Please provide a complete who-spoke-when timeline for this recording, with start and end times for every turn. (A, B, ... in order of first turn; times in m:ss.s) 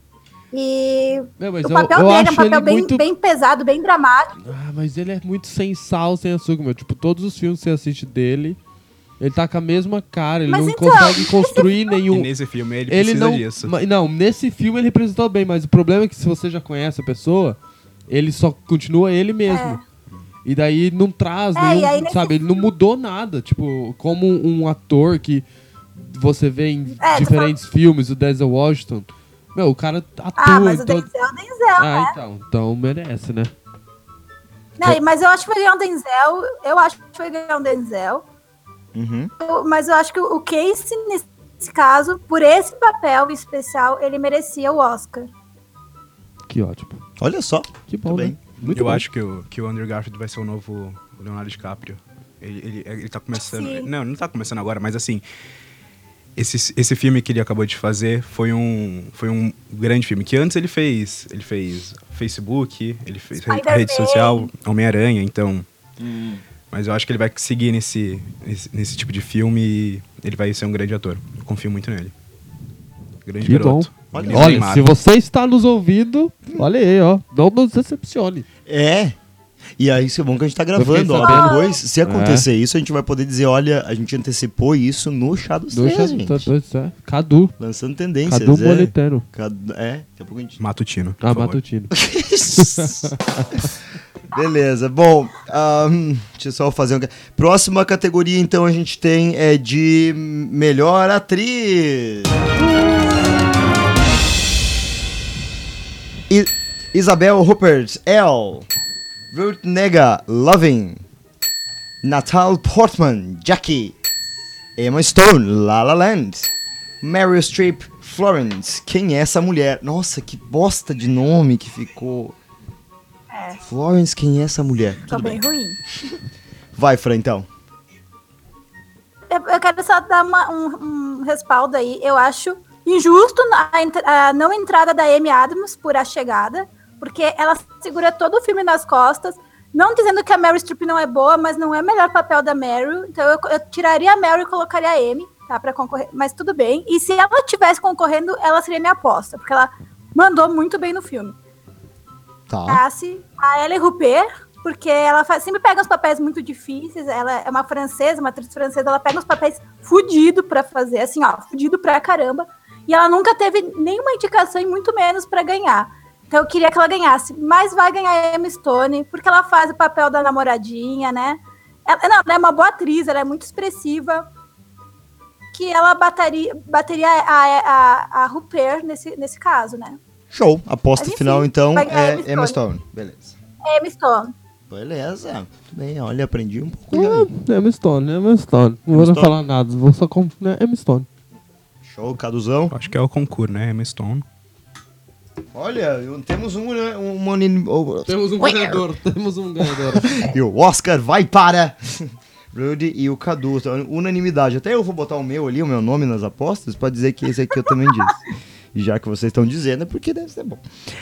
0:00.5-0:04.4 A
0:01.4-0:03.0 B
0:04.4-0:08.6 B
0:09.2-0:12.3 B
0:10.5-0:12.0 A
0:12.1-0:13.7 C
0:12.9-0:19.8 B
0:19.5-0:19.8 A
0:20.4-0:31.1 B
0:21.6-0:22.6 A
0:27.0-0:27.5 A
0:30.4-0:32.1 A
0:31.8-0:33.5 B
0:34.8-0:38.2 A
0:38.9-0:39.3 D
0:39.4-0:45.3 A
0:46.5-0:47.0 B
0:47.2-0:48.8 D
0:47.9-0:49.0 B
0:48.7-0:55.2 C
0:53.3-0:53.9 A
0:56.4-1:05.6 C
1:03.4-1:04.5 A
1:06.0-1:06.4 D
1:06.7-1:12.1 C
1:13.2-1:14.9 C
1:13.4-1:18.4 B
1:14.1-1:14.7 D
1:18.6-1:19.2 D
1:19.8-1:26.5 D
1:20.8-1:22.5 B
1:21.2-1:21.8 A
1:25.7-1:27.5 B
1:27.6-1:30.6 D
1:28.2-1:29.2 B
1:30.6-1:31.6 C
1:31.2-1:31.9 B
1:31.9-1:33.6 D
1:32.5-1:33.6 B
1:34.3-1:43.4 D
1:46.3-1:48.7 D
1:49.3-1:51.0 D
1:52.0-1:54.0 D
1:54.8-1:56.5 D
1:57.0-2:02.4 D
2:03.3-2:03.6 A
2:03.6-2:05.4 D
2:05.1-2:05.8 A
2:06.8-2:07.5 D
2:09.3-2:31.4 A
2:32.5-2:32.8 D
2:32.7-2:54.3 A
2:55.5-3:00.0 A
3:00.3-3:03.3 D
3:01.0-3:02.6 A
3:03.6-3:04.3 A
3:04.7-3:07.3 D
3:06.9-3:11.1 B
3:08.9-3:09.3 D
3:11.8-3:12.7 D
3:12.7-3:14.2 C
3:15.5-3:18.8 D
3:18.0-3:20.2 B
3:19.9-3:30.6 D